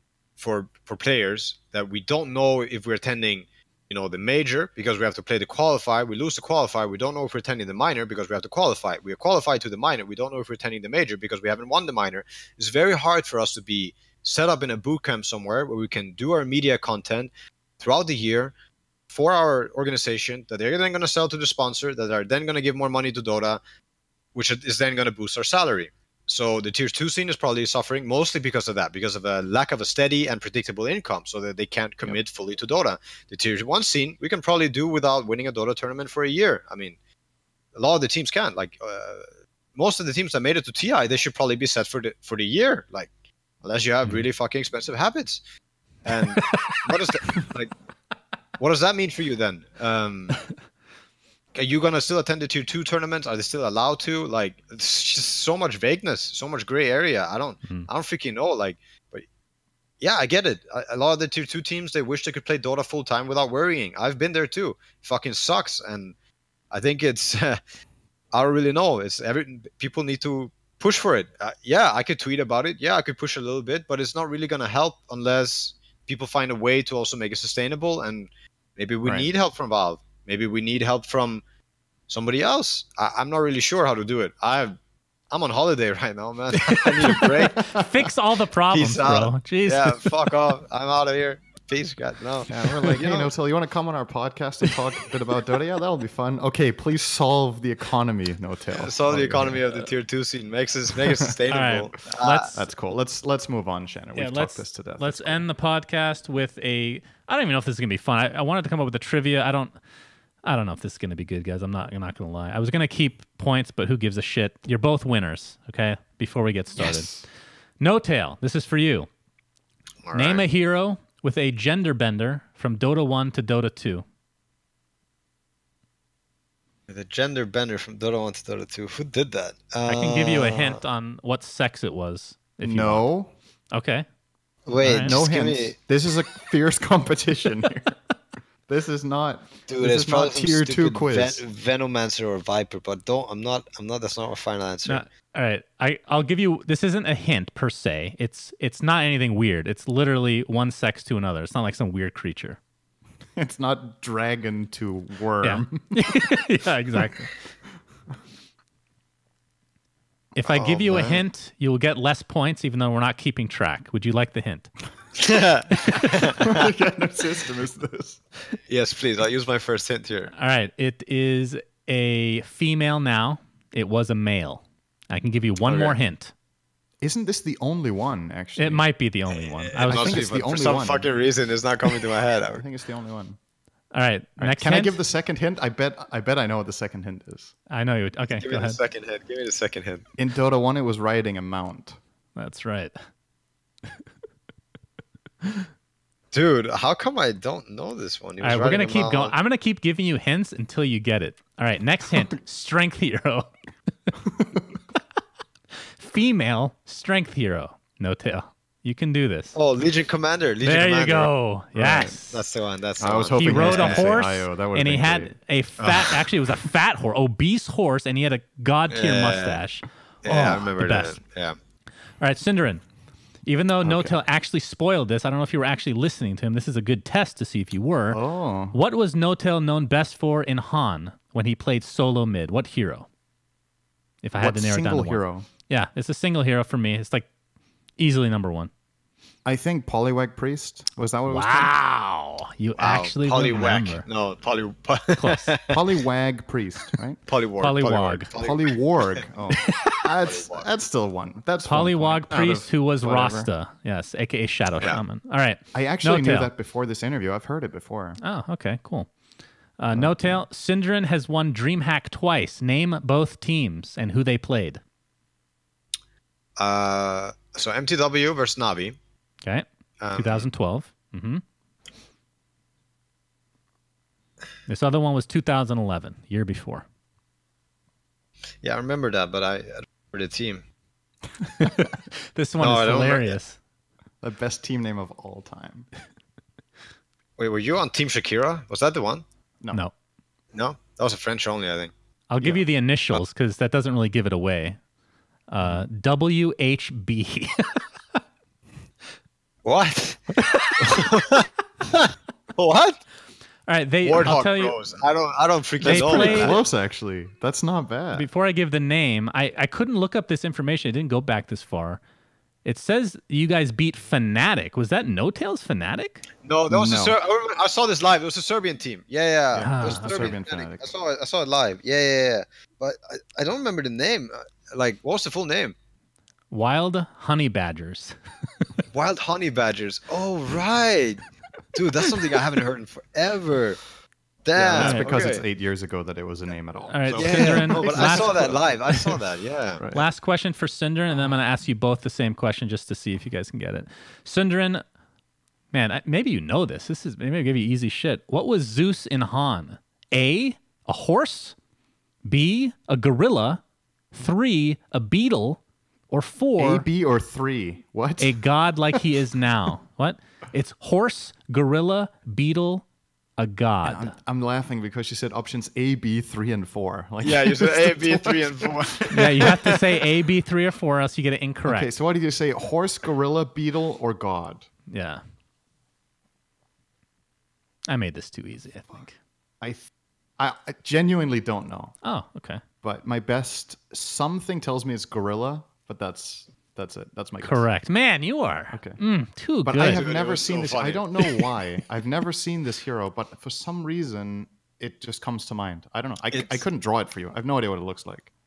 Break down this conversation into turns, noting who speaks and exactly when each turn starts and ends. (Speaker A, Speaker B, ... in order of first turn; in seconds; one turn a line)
Speaker A: 0.4-18.5
Speaker A: 19.1-23.6
Speaker A: 24.3-37.0
Speaker A: 37.7-43.1
Speaker A: 43.6-45.4
Speaker A: 46.0-47.7
Speaker B: 46.5-46.8
Speaker A: 48.6-50.4
Speaker A: 51.5-59.2
Speaker A: 60.0-66.1
Speaker A: 66.7-67.6
Speaker A: 68.3-81.4
Speaker C: 79.0-79.3
Speaker A: 82.1-84.8
Speaker A: 85.3-87.8
Speaker B: 86.5-90.3
Speaker A: 88.7-93.3
Speaker C: 92.5-99.6
Speaker A: 98.8-102.6
Speaker C: 101.0-101.3
Speaker B: 101.5-102.6
Speaker C: 102.5-105.5
Speaker B: 104.1-109.8
Speaker B: 110.4-117.1
Speaker C: 116.8-117.2
Speaker B: 117.8-119.1
Speaker A: 120.0-120.4
Speaker B: 120.1-124.0
Speaker A: 126.9-130.8
Speaker B: 129.8-133.1
Speaker C: 132.6-133.3
Speaker B: 133.7-134.1
Speaker A: 134.7-135.8
Speaker B: 134.8-135.1
Speaker C: 135.0-138.0
Speaker C: 138.7-141.4
Speaker A: 139.7-145.0
Speaker B: 144.8-152.6
Speaker C: 153.3-156.4
Speaker B: 155.4-157.3
Speaker B: 160.4-164.7
Speaker A: 160.4-161.2
Speaker A: 165.2-166.7
Speaker B: 165.9-166.2
Speaker C: 166.4-168.2
Speaker A: 168.7-170.3
Speaker B: 170.3-176.3
Speaker A: 175.6-176.0
Speaker C: 177.0-178.8
Speaker B: 178.6-180.3
Speaker A: 179.7-182.7
Speaker C: 179.8-181.1
Speaker C: 182.5-183.4
Speaker B: 183.9-185.0
Speaker C: 184.4-187.5
Speaker B: 187.7-188.8
Speaker A: 188.4-190.1
Speaker C: 190.2-192.0
Speaker B: 192.3-193.0
Speaker B: 195.4-195.7
Speaker A: 196.3-199.3
Speaker B: 198.4-203.5
Speaker B: 205.7-209.6
Speaker A: 209.5-211.3
Speaker B: 210.6-212.4
Speaker C: 211.7-212.2
Speaker A: 211.9-214.1
Speaker C: 213.0-215.3
Speaker B: 213.3-221.2
Speaker A: 215.8-216.3
Speaker A: 218.9-219.6
Speaker A: 220.2-221.6
Speaker B: 222.2-222.8
Speaker B: 223.4-228.2
Speaker C: 223.8-224.2
Speaker C: 228.1-228.8
Speaker B: 228.7-233.1
Speaker B: 234.2-237.3
Speaker C: 234.4-235.5
Speaker B: 238.0-238.7
Speaker C: 239.4-241.7
Speaker B: 241.3-244.1
Speaker A: 242.8-245.8
Speaker B: 245.1-245.5
Speaker C: 245.7-247.2
Speaker A: 247.3-249.2
Speaker B: 247.6-248.3
Speaker C: 248.4-253.5
Speaker A: 249.9-250.7
Speaker B: 251.6-256.5
Speaker C: 255.7-258.2
Speaker B: 258.2-259.1
Speaker B: 259.8-264.8
Speaker C: 259.9-260.4
Speaker A: 266.6-269.0
Speaker B: 269.4-271.4
Speaker A: 270.0-270.5
Speaker B: 274.7-276.9
Speaker A: 278.6-280.6
Speaker B: 281.6-283.6
Speaker A: 282.6-283.4
Speaker C: 284.2-285.9
Speaker A: 287.4-289.2
Speaker A: 290.5-291.9
Speaker B: 292.3-294.8
Speaker B: 295.5-297.8
Speaker C: 295.6-295.9
Speaker A: 299.6-303.0
Speaker B: 300.4-301.0
Speaker B: 303.7-304.8
Speaker A: 304.0-306.6
Speaker B: 305.8-306.6
Speaker C: 305.8-308.3
Speaker B: 308.1-312.0
Speaker B: 312.6-316.2
Speaker A: 316.4-325.7
Speaker C: 316.7-317.1
Speaker C: 319.5-320.9
Speaker B: 319.6-320.4
Speaker B: 326.5-328.1
Speaker A: 328.9-331.2
Speaker A: 331.7-333.8
Speaker A: 334.4-335.4
Speaker C: 334.5-338.6
Speaker B: 334.8-335.2
Speaker B: 336.9-339.1
Speaker A: 337.1-339.8
Speaker C: 339.8-340.1
Speaker B: 339.9-344.8
Speaker B: 345.7-351.6
Speaker B: 352.2-353.6
Speaker B: 354.1-356.9
Speaker C: 356.6-358.4
Speaker B: 358.2-364.1
Speaker C: 363.8-369.9
Speaker A: 367.2-369.6
Speaker B: 369.1-371.9
Speaker C: 371.6-374.7
Speaker B: 374.9-375.2
Speaker B: 377.9-379.2
Speaker C: 379.6-382.0
Speaker B: 382.0-382.6
Speaker C: 382.8-387.7
Speaker B: 387.4-390.0
Speaker C: 388.7-389.0
Speaker C: 389.6-398.3
Speaker A: 389.8-391.5
Speaker A: 396.3-396.6